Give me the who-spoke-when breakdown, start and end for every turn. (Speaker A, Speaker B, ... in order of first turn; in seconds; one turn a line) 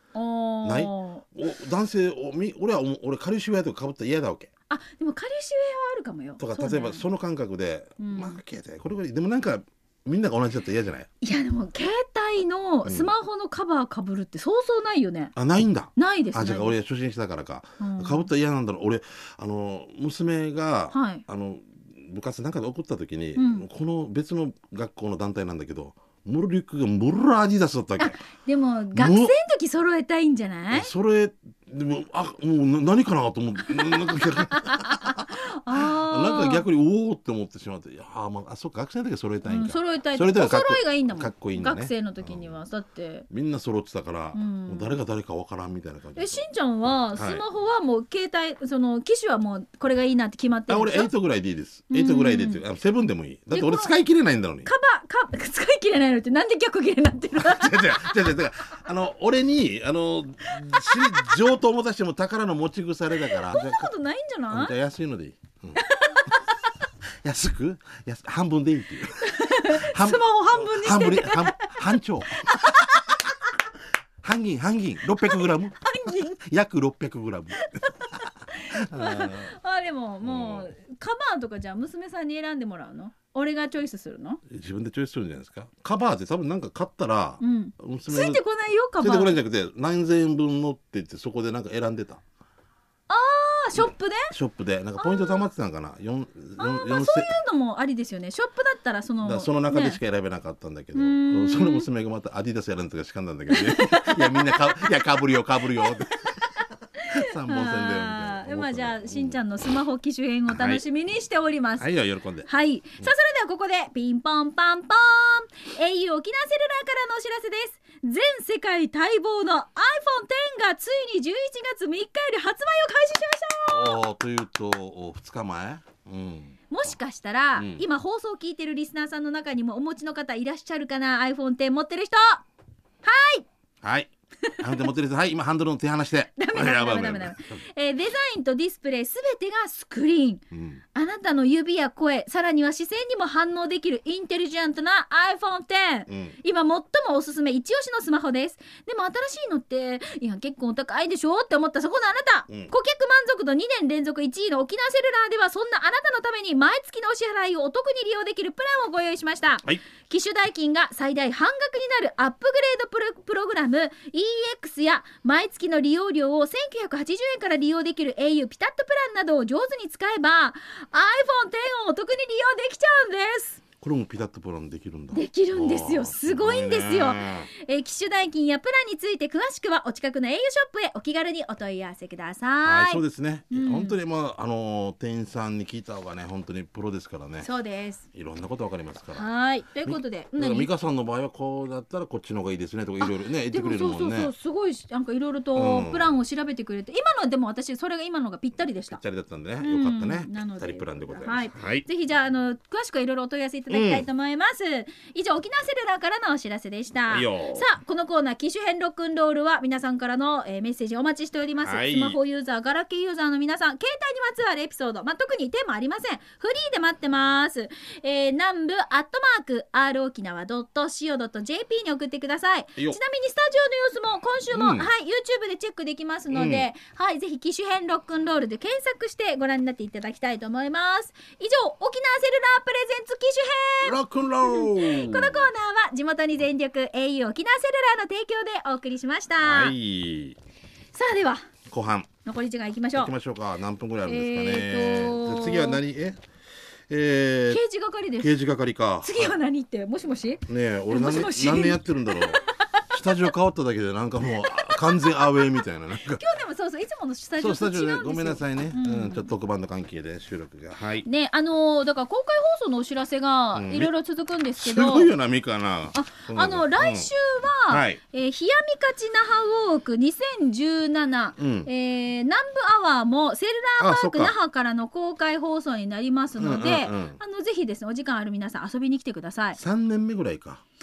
Speaker A: 0.1-1.2
Speaker B: 0.6-4.5
Speaker A: 4.7-7.0
Speaker B: 6.4-11.1
Speaker A: 8.0-8.4
Speaker A: 11.2-15.3
Speaker B: 12.8-13.1
Speaker B: 15.3-28.2
Speaker A: 15.9-16.8
Speaker A: 17.8-18.3
Speaker A: 20.9-21.2
Speaker A: 23.4-23.7
Speaker A: 28.0-30.9
Speaker B: 28.9-29.3
Speaker B: 30.7-42.6
Speaker A: 33.9-36.6
Speaker A: 39.5-43.3
Speaker B: 43.3-46.4
Speaker A: 44.3-45.0
Speaker A: 46.1-51.1
Speaker B: 47.1-47.4
Speaker B: 50.7-54.7
Speaker A: 51.9-52.6
Speaker A: 53.5-53.9
Speaker A: 54.6-58.1
Speaker B: 57.4-63.9
Speaker A: 63.3-64.7
Speaker B: 64.5-65.8
Speaker A: 65.8-66.5
Speaker B: 67.2-72.9
Speaker A: 69.2-71.8
Speaker A: 72.5-72.9
Speaker B: 74.2-79.5
Speaker A: 75.3-76.4
Speaker A: 77.6-84.4
Speaker B: 80.2-80.7
Speaker B: 84.5-88.4
Speaker A: 87.4-89.4
Speaker B: 89.0-92.2
Speaker A: 93.1-94.3
Speaker B: 93.7-97.3
Speaker A: 95.0-95.4
Speaker A: 96.6-100.0
Speaker B: 99.2-106.4
Speaker A: 100.9-101.9
Speaker A: 103.5-104.9
Speaker A: 107.0-111.9
Speaker B: 107.1-109.4
Speaker B: 110.5-110.8
Speaker B: 111.8-112.5
Speaker A: 112.5-124.0
Speaker B: 123.7-126.9
Speaker A: 126.7-132.4
Speaker B: 127.5-127.8
Speaker A: 133.0-133.4
Speaker B: 133.8-137.6
Speaker A: 134.4-134.8
Speaker A: 136.4-140.4
Speaker B: 140.5-140.8
Speaker A: 140.9-173.6
Speaker B: 146.1-146.4
Speaker B: 173.8-177.5
Speaker A: 175.1-184.0
Speaker B: 182.6-187.5
Speaker A: 187.4-188.0
Speaker B: 188.1-189.2
Speaker A: 189.1-190.7
Speaker B: 189.8-194.3
Speaker A: 193.0-199.0
Speaker B: 195.5-196.1
Speaker B: 198.9-201.8
Speaker A: 199.6-239.8
Speaker B: 203.7-204.1
Speaker B: 207.1-207.7
Speaker B: 211.6-212.2
Speaker B: 224.5-224.9
Speaker B: 226.3-226.7
Speaker B: 233.8-235.5
Speaker B: 239.4-240.4
Speaker A: 240.9-241.4
Speaker B: 241.7-242.1
Speaker A: 242.2-243.1
Speaker B: 242.9-246.2
Speaker A: 244.1-245.8
Speaker B: 246.9-247.6
Speaker A: 247.5-248.3
Speaker B: 248.2-249.4
Speaker A: 249.0-252.8
Speaker B: 250.5-256.3
Speaker A: 254.4-255.5
Speaker A: 256.1-259.3
Speaker B: 257.4-261.1
Speaker A: 261.0-265.1
Speaker B: 263.5-263.9
Speaker B: 264.6-267.1
Speaker A: 265.9-279.6
Speaker B: 267.7-268.0
Speaker B: 271.4-271.7
Speaker B: 273.8-274.3
Speaker B: 276.4-277.2
Speaker B: 279.6-280.6